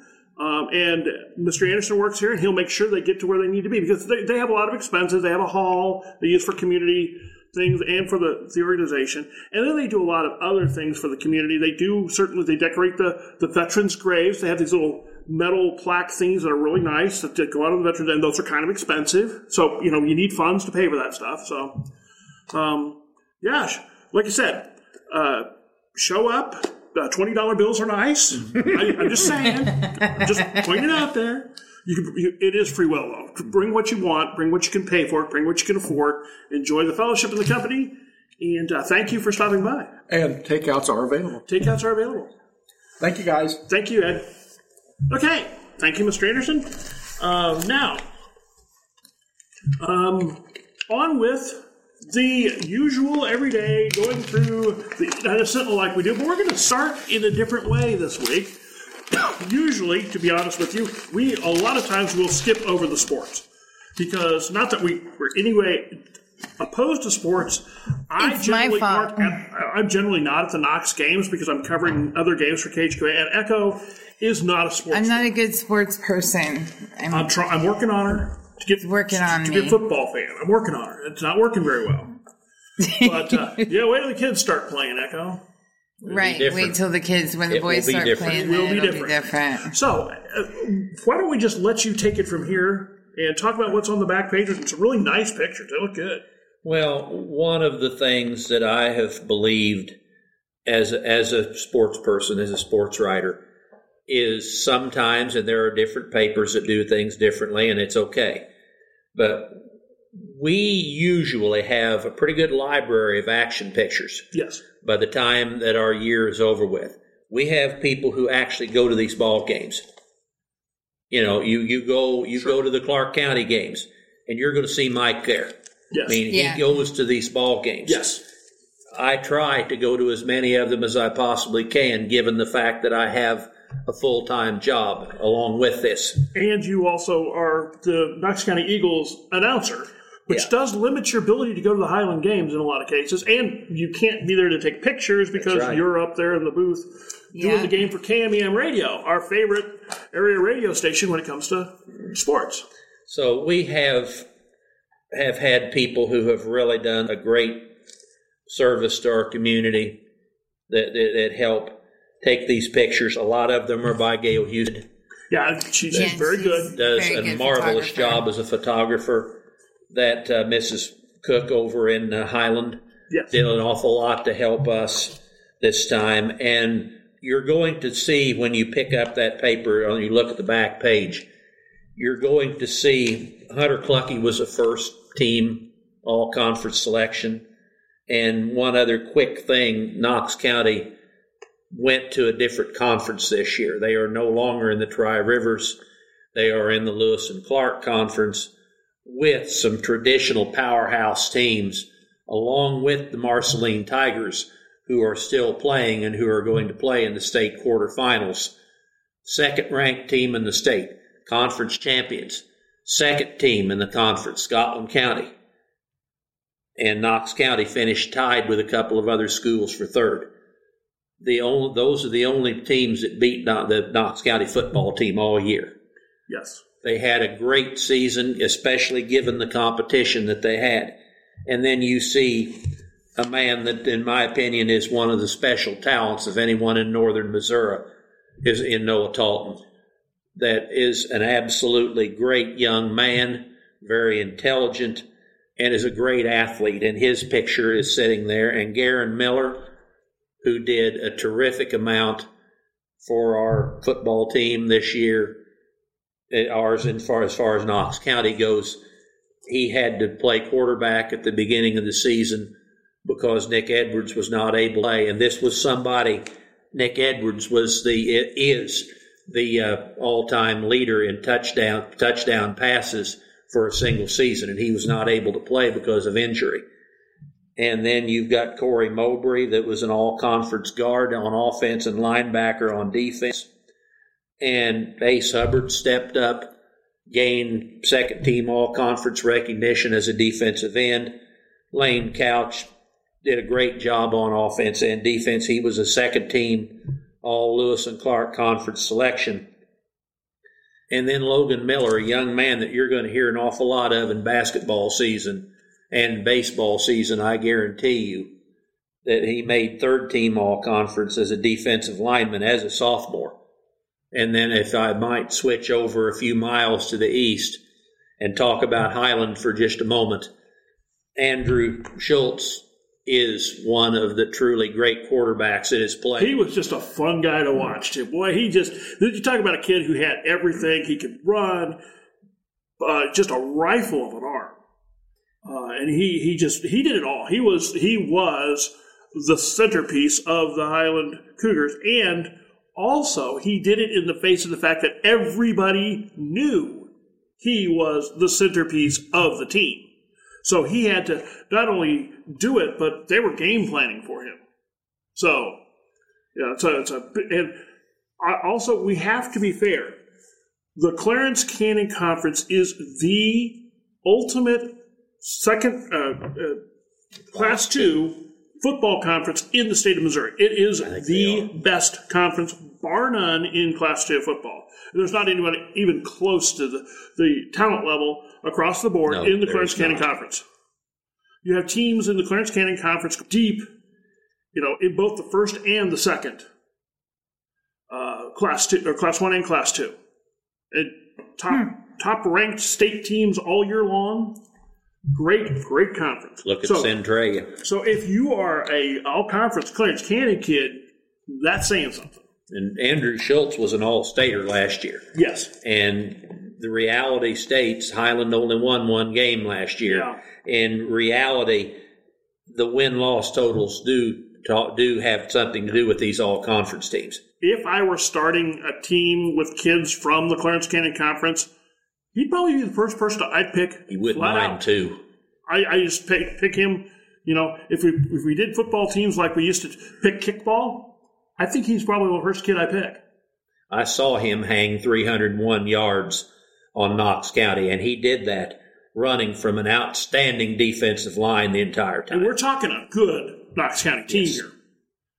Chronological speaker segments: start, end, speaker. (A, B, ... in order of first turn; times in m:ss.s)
0:00.4-0:21.8 A
0:22.5-0:39.9 A
0:40.1-0:41.4 B
0:41.5-0:42.3 A
0:43.0-0:43.6 B
0:43.7-0:44.3 A
0:45.1-0:48.0 A
0:49.8-0:58.6 A
0:59.1-1:03.4 A
1:04.0-1:06.0 A
1:06.6-1:15.3 A
1:08.2-1:09.4 C
1:14.9-1:17.3 C
1:17.1-1:22.1 A
1:18.8-1:19.8 C
1:22.8-1:23.6 C
1:23.0-1:25.4 A
1:26.0-1:26.8 D
1:26.0-1:29.7 C
1:27.5-1:28.5 D
1:28.3-1:36.2 A
1:36.6-1:40.0 D
1:40.6-1:43.4 D
1:44.1-1:48.4 D
1:49.2-1:49.6 D
1:50.1-1:54.2 D
1:54.3-1:54.6 A
1:54.8-1:59.8 D
2:01.1-2:05.5 D
2:05.9-2:06.2 A
2:06.0-2:08.0 D
2:06.3-2:06.6 C
2:07.8-2:08.2 A
2:08.9-2:16.2 D
2:16.3-2:32.6 A
2:25.4-2:25.8 D
2:27.3-2:27.7 C
2:33.1-2:34.3 D
2:35.1-2:37.7 D
2:38.5-2:40.0 D
2:40.7-2:44.9 D
2:45.3-2:46.8 A
2:45.9-2:48.2 C
2:46.7-3:01.3 D
3:02.0-3:07.4 D
3:08.1-3:10.9 D
3:11.7-3:15.8 D
3:16.3-3:18.5 D
3:19.0-3:28.5 D
3:29.2-3:35.3 D
3:36.8-3:40.3 D
3:41.2-3:45.7 D
3:46.3-3:46.6 A
3:46.8-3:51.0 D
3:51.5-3:52.6 D
3:53.2-3:57.9 D
3:58.4-3:59.6 D
4:00.4-4:05.0 D
4:05.6-4:09.7 D
4:10.4-4:12.3 D
4:13.0-4:15.4 D
4:16.3-4:18.8 D
4:19.5-4:22.5 D
4:23.0-4:36.6 D
4:37.6-4:43.5 D
4:44.4-4:46.5 D
4:47.1-4:51.2 D
4:51.7-4:52.7 D
4:53.2-4:59.5 D
5:00.9-5:08.3 D
5:09.0-5:13.4 D
5:14.1-5:17.6 D
5:18.2-5:20.3 D
5:21.2-5:26.3 D
5:26.2-5:31.8 A
5:32.8-5:34.6 A
5:35.4-5:49.9 A
5:50.4-5:54.4 A
5:55.2-5:55.6 A
5:56.3-5:57.6 A
5:58.2-6:00.0 A
6:00.8-6:06.6 A
6:07.3-6:20.4 A
6:07.3-6:07.8 D
6:10.8-6:11.5 D
6:19.1-6:20.1 D
6:21.4-6:23.7 A
6:24.5-6:26.4 A
6:27.9-6:30.0 A
6:30.7-6:34.4 A
6:35.1-6:36.9 A
6:36.4-6:37.5 D
6:37.6-6:42.2 A
6:42.5-6:45.1 D
6:45.1-6:45.5 A
6:45.6-6:51.8 D
6:49.9-6:50.2 A
6:52.5-6:57.2 D
6:57.4-7:01.5 A
7:02.1-7:04.6 A
7:03.9-7:05.0 D
7:05.5-7:13.0 A
7:13.7-7:22.3 D
7:22.1-7:24.5 A
7:24.1-7:24.4 D